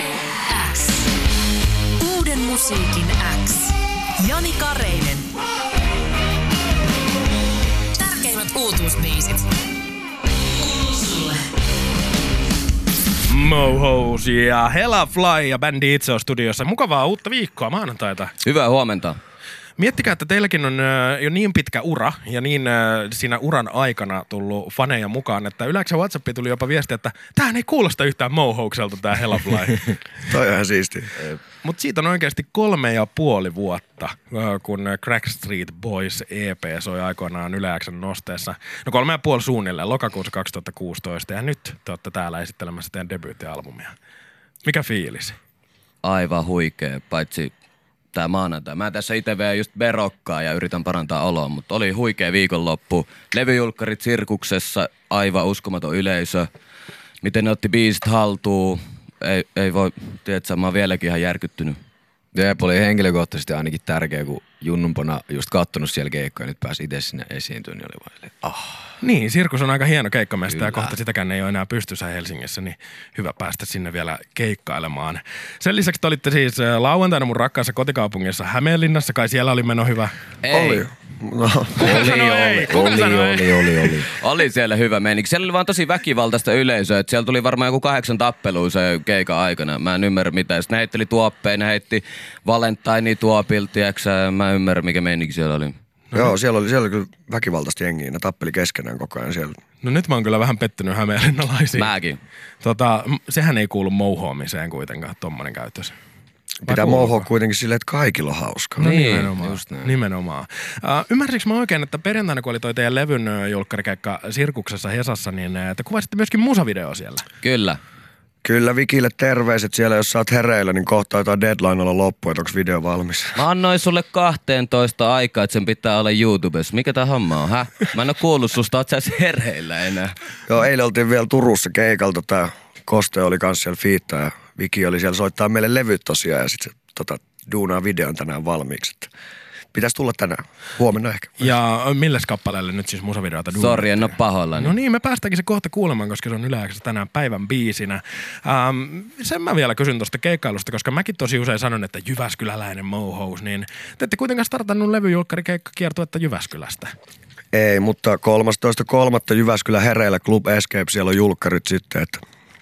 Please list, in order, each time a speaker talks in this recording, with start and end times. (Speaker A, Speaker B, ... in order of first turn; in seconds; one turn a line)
Speaker A: 0.5-1.1
Speaker A: 2.0-5.3
Speaker A: 8.0-9.5
Speaker A: 10.6-11.4
Speaker B: 13.3-18.4
Speaker C: 18.4-19.2
Speaker B: 19.8-30.0
Speaker D: 30.3-31.3
Speaker B: 31.6-43.9
Speaker B: 44.6-45.4
Speaker C: 46.0-47.5
Speaker C: 48.1-56.5
Speaker C: 57.2-61.8
Speaker E: 62.3-69.0
Speaker B: 69.0-80.1
Speaker E: 70.5-71.0
Speaker C: 80.4-80.8
Speaker D: 80.5-82.0
Speaker B: 81.8-84.0
Speaker E: 81.8-84.1
Speaker C: 84.1-95.7
Speaker B: 96.1-96.4
Speaker D: 96.2-99.6
Speaker B: 99.8-101.9
Speaker C: 101.8-102.2
Speaker B: 102.6-106.0
Speaker D: 106.7-108.9
Speaker B: 106.7-107.3
Speaker C: 108.8-109.3
Speaker B: 108.8-117.3
Speaker E: 109.4-109.9
Speaker C: 117.4-117.8
Speaker D: 118.4-123.4
Speaker C: 123.4-130.1
Speaker D: 130.5-139.1
Speaker D: 139.7-141.4
Speaker B: 141.4-156.9
Speaker C: 143.5-144.7
Speaker D: 157.5-162.2